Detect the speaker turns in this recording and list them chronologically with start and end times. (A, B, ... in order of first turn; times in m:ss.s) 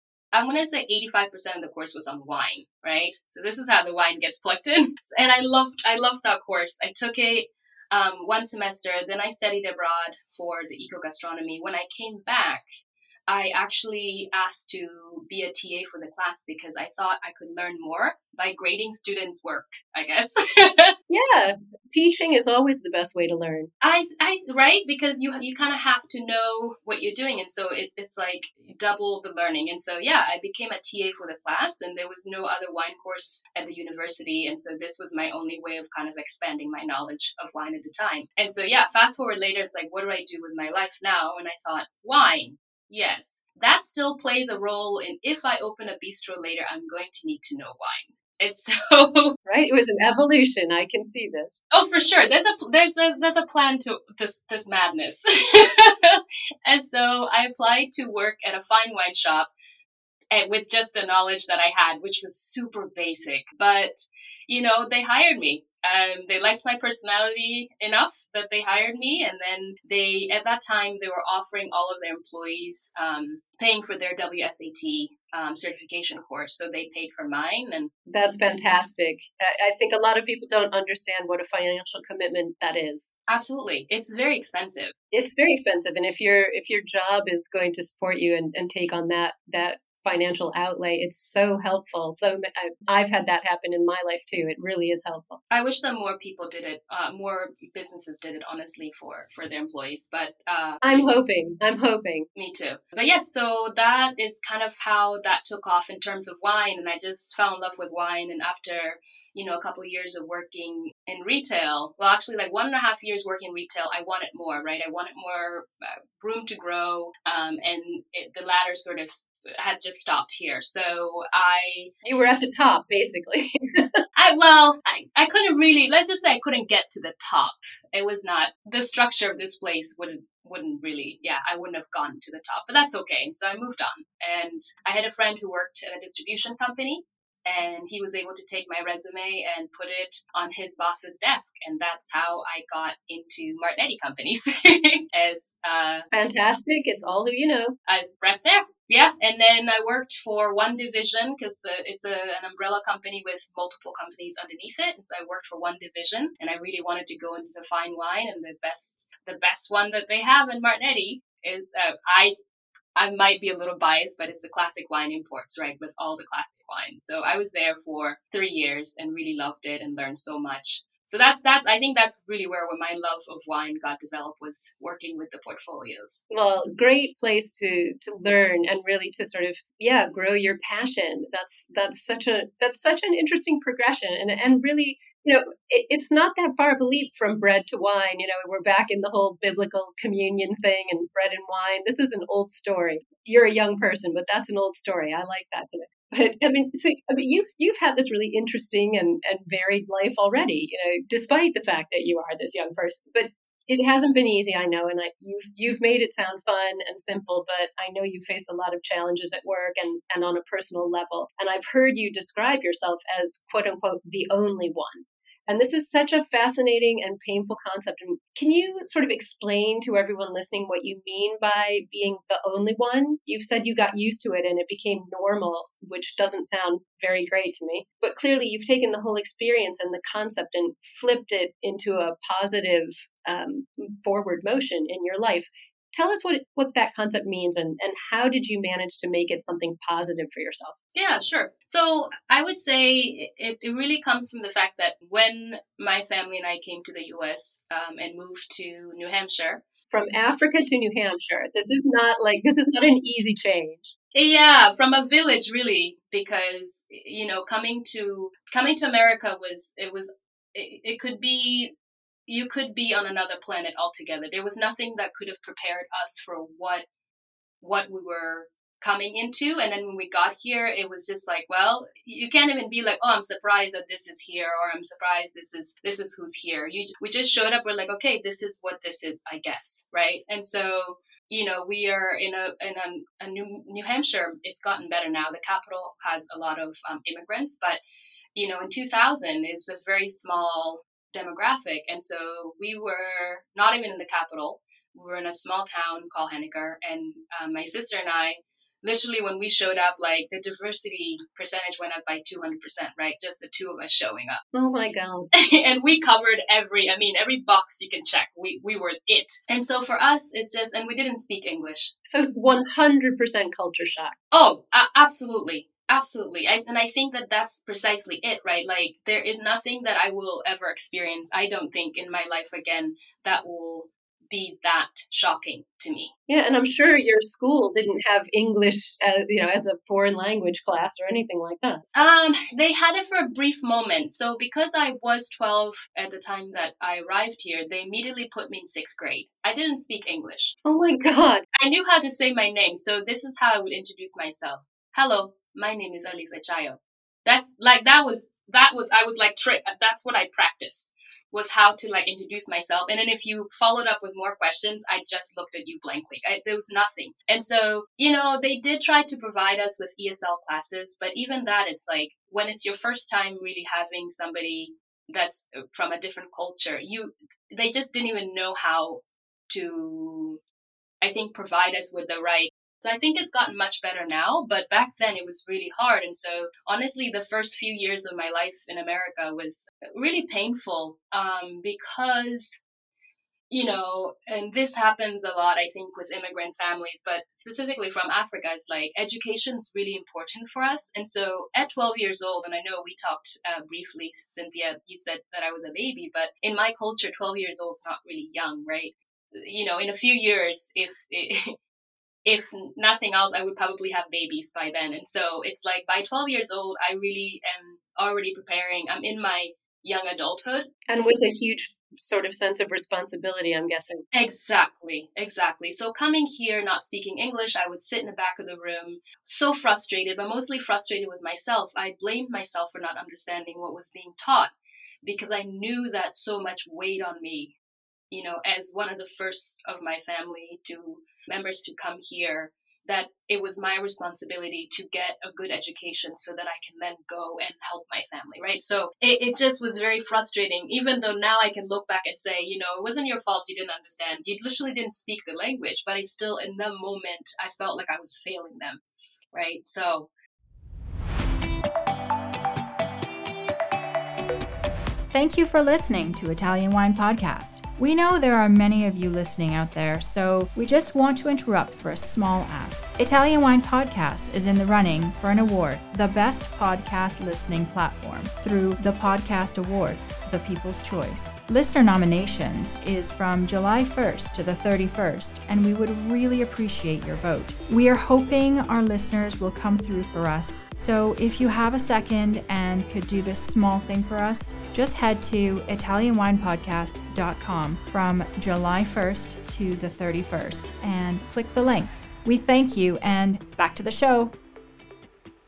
0:00.3-0:12.7 A
0:13.3-0:20.9 A
0:21.1-0:23.7 B
0:23.8-0:49.4 A
0:49.5-0:51.6 B
0:51.7-0:59.5 A
1:00.3-1:17.9 A
1:18.1-1:23.1 B
1:23.3-1:24.9 A
1:25.1-1:35.4 B
1:35.5-1:40.8 A
1:40.8-1:42.3 B
1:42.4-2:01.9 A
2:02.0-2:04.0 B
2:04.2-2:26.1 A
2:26.1-2:27.7 B
2:27.9-2:42.3 A
2:43.0-2:56.2 A
2:56.3-4:00.8 B
4:01.0-4:09.6 A
4:09.9-4:13.9 B
4:14.1-4:21.7 A
4:22.3-4:26.8 A
4:27.6-4:47.8 A
4:48.4-5:04.4 A
5:04.5-5:05.3 B
5:05.3-5:11.9 A
5:12.0-5:14.2 B
5:14.3-5:26.1 A
5:26.3-5:31.8 B
5:32.0-5:40.6 A
5:40.6-5:41.4 B
5:41.5-6:10.4 A
6:11.0-6:22.6 A
6:23.5-6:41.5 A
6:42.2-6:50.7 A
6:50.9-6:54.0 B
6:54.1-7:04.5 A
7:05.0-7:07.5 A
7:08.1-7:28.8 A
7:29.3-7:30.1 A
7:35.1-8:14.3 C